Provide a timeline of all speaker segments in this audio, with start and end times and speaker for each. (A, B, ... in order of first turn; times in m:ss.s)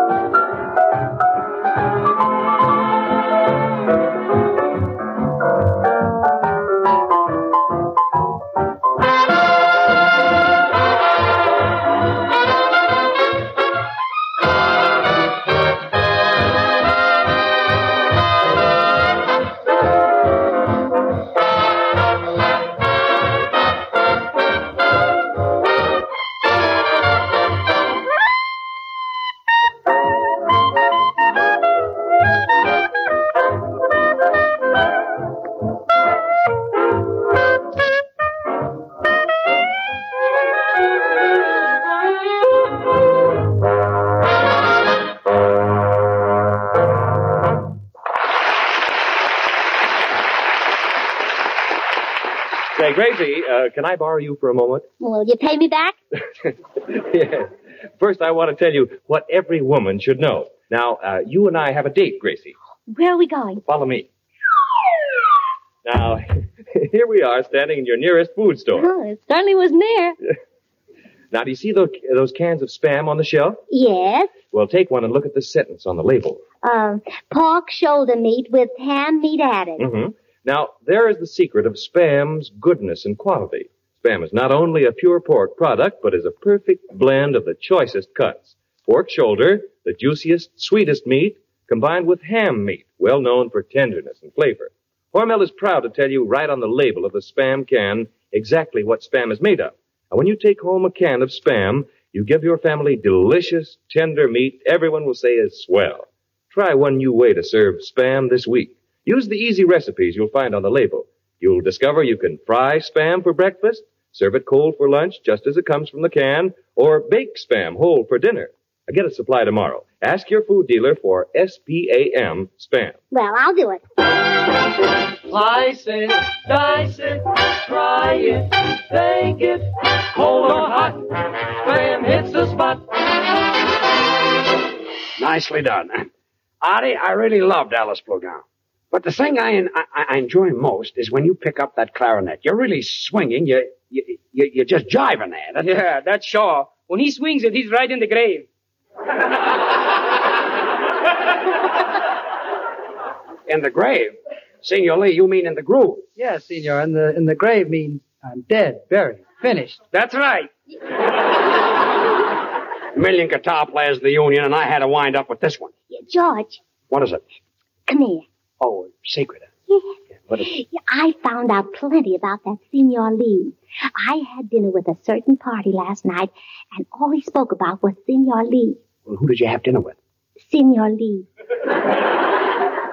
0:52.7-0:54.8 A
0:55.0-0:55.9 B
0:56.9-1:02.5 A
1:02.9-1:03.6 B
1:03.7-1:04.1 A
1:05.8-1:08.9 A
1:08.7-1:10.1 B
1:11.3-1:13.6 A
1:13.7-1:14.4 B
1:14.4-1:16.4 A
1:16.6-1:19.9 B
1:19.8-2:03.0 A
2:03.1-2:03.8 B
2:05.3-2:12.8 C
2:15.2-2:16.1 D
2:16.6-2:25.7 D
2:25.6-2:28.4 E
2:33.5-2:36.1 D
2:36.2-2:39.8 F
2:39.9-2:40.5 E
2:42.9-2:45.7 D
2:45.9-2:46.6 B
2:46.9-2:47.2 D
2:47.9-2:48.2 B
2:48.6-2:49.5 D
2:49.7-2:58.8 B
2:59.0-3:00.0 D
3:00.4-3:01.2 B